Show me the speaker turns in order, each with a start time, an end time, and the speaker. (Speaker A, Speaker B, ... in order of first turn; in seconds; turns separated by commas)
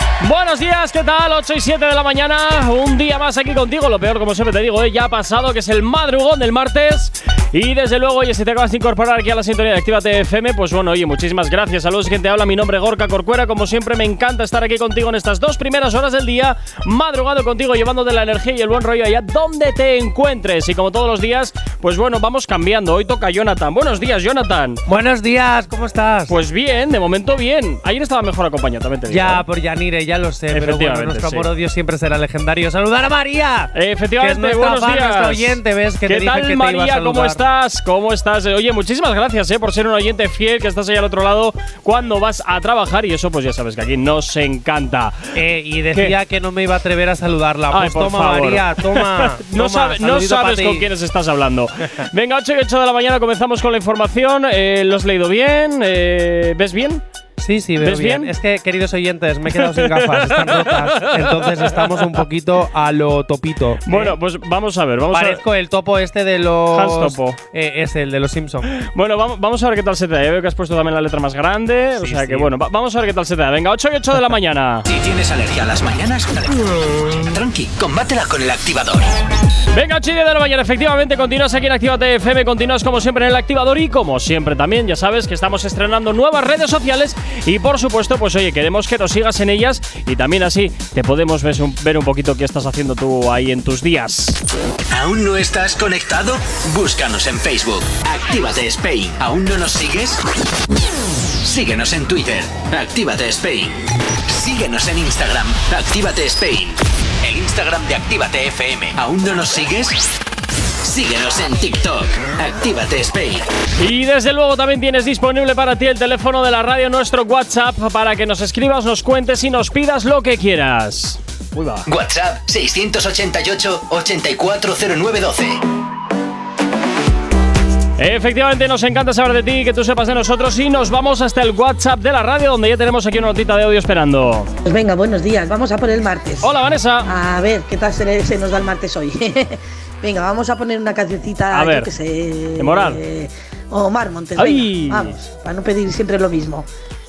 Speaker A: 0.2-24.8, Speaker B: 24.9-26.3, Speaker A: 26.3-29.4, Speaker B: 29.1-37.4, Speaker A: 30.5-31.5, Speaker A: 33.7-45.2, Speaker B: 45.3-50.9, Speaker A: 47.7-57.0, Speaker B: 57.4-64.2, Speaker A: 57.8-58.3, Speaker A: 59.5-62.2, Speaker A: 63.9-65.4, Speaker B: 65.1-68.7, Speaker A: 66.7-67.4, Speaker A: 68.8-74.8, Speaker B: 72.0-72.5, Speaker C: 74.9-79.2, Speaker A: 79.7-94.4, Speaker C: 94.9-100.2, Speaker C: 101.4-110.1, Speaker C: 110.8-113.5, Speaker A: 113.8-121.9, Speaker C: 121.9-125.6, Speaker A: 128.0-134.5, Speaker D: 134.7-136.5, Speaker A: 136.4-137.1, Speaker D: 137.1-146.7, Speaker A: 141.5-141.9, Speaker A: 142.6-143.0, Speaker A: 144.4-145.2